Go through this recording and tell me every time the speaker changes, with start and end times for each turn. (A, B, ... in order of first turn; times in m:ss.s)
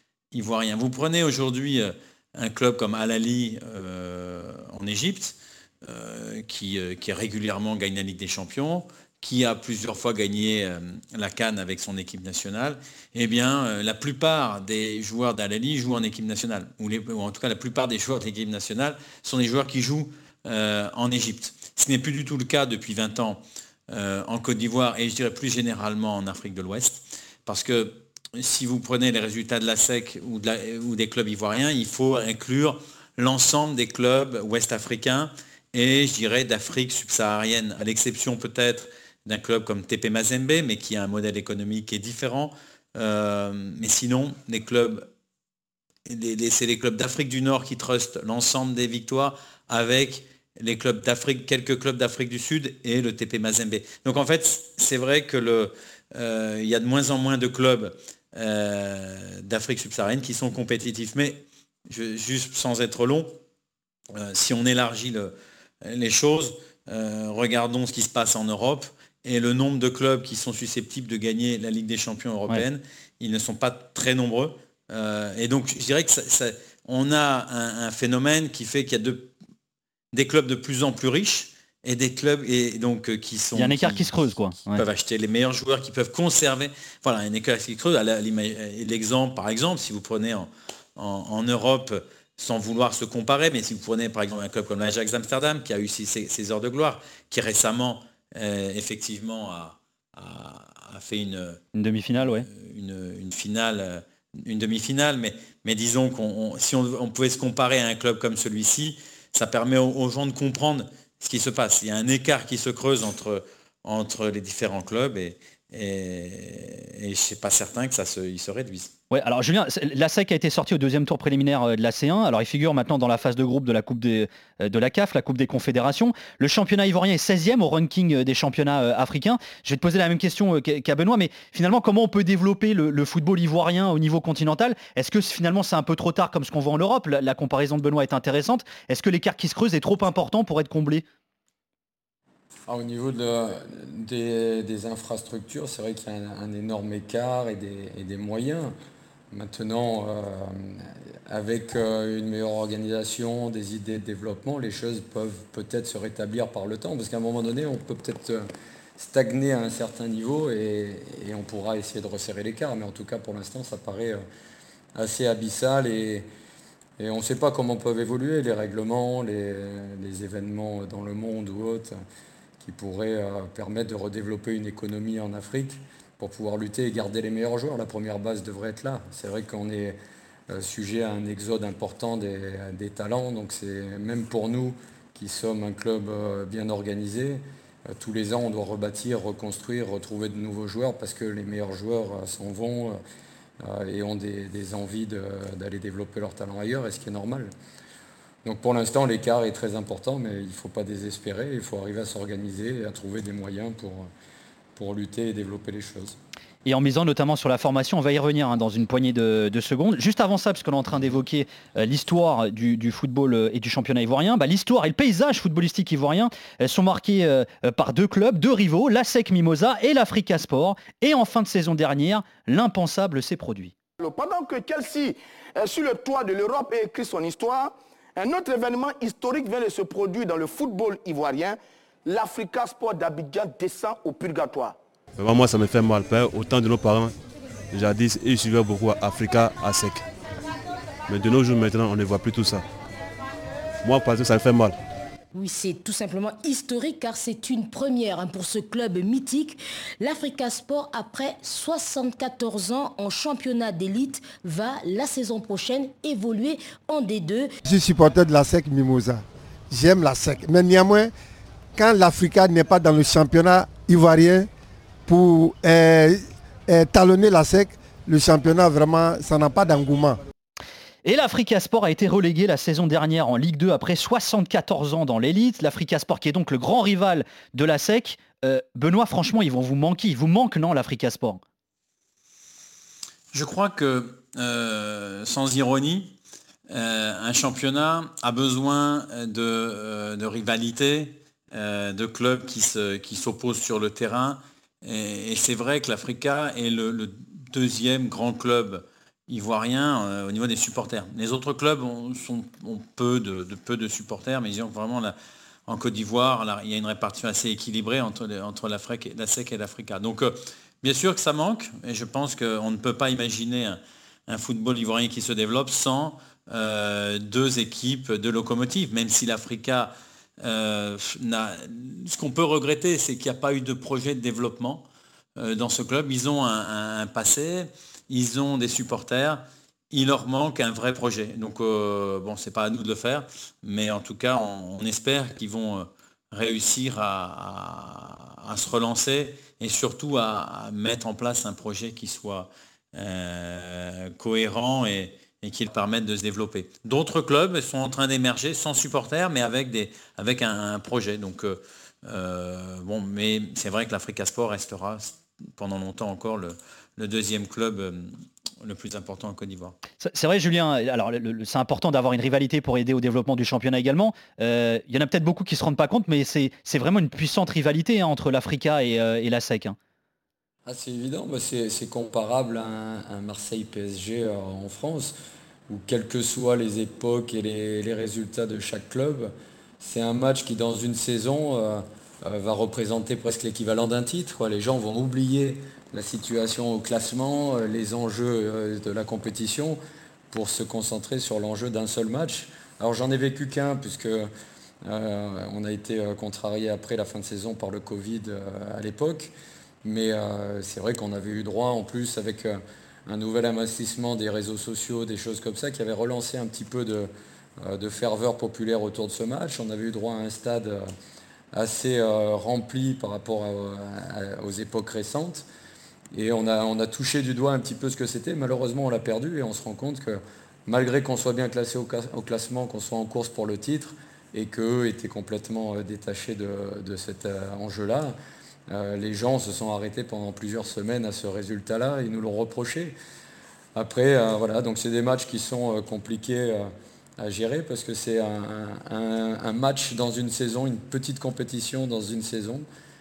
0:00.3-0:45.1 A
0:46.1-1:03.4 A
1:04.1-1:05.3 A
1:05.8-1:19.3 A
1:20.1-1:24.1 A
1:23.6-1:24.8 B
1:24.7-1:41.6 A
1:41.8-1:42.5 B
1:42.3-1:58.9 A
1:59.1-2:21.0 B
2:22.7-2:28.7 C
2:29.3-2:38.5 C
2:39.0-2:44.2 C
2:45.0-2:46.3 C
2:47.0-2:51.9 C
2:52.6-3:00.0 C
3:00.5-3:13.0 C
3:13.6-3:17.5 C
3:18.4-3:24.1 C
3:24.8-3:26.2 C
3:26.6-3:43.7 B
3:44.0-3:54.8 D
3:55.2-3:57.1 E
3:57.7-4:00.0 E
4:01.1-4:02.6 E
4:03.8-4:04.8 E
4:05.3-4:17.5 F
4:17.7-4:21.1 G
4:21.8-4:24.5 G
4:25.1-4:30.2 G
4:31.0-4:41.4 B
4:43.3-4:46.1 A
4:46.7-5:05.2 A
5:05.7-5:24.9 A
5:25.4-5:59.8 A
6:00.0-6:09.8 B
6:10.7-6:15.1 C
6:15.7-6:29.8 C
6:30.3-6:34.3 C
6:34.8-6:39.3 C
6:39.8-6:50.9 C
6:51.5-6:55.4 C
6:56.1-7:08.2 C
7:08.7-7:13.0 C
7:13.8-7:22.7 C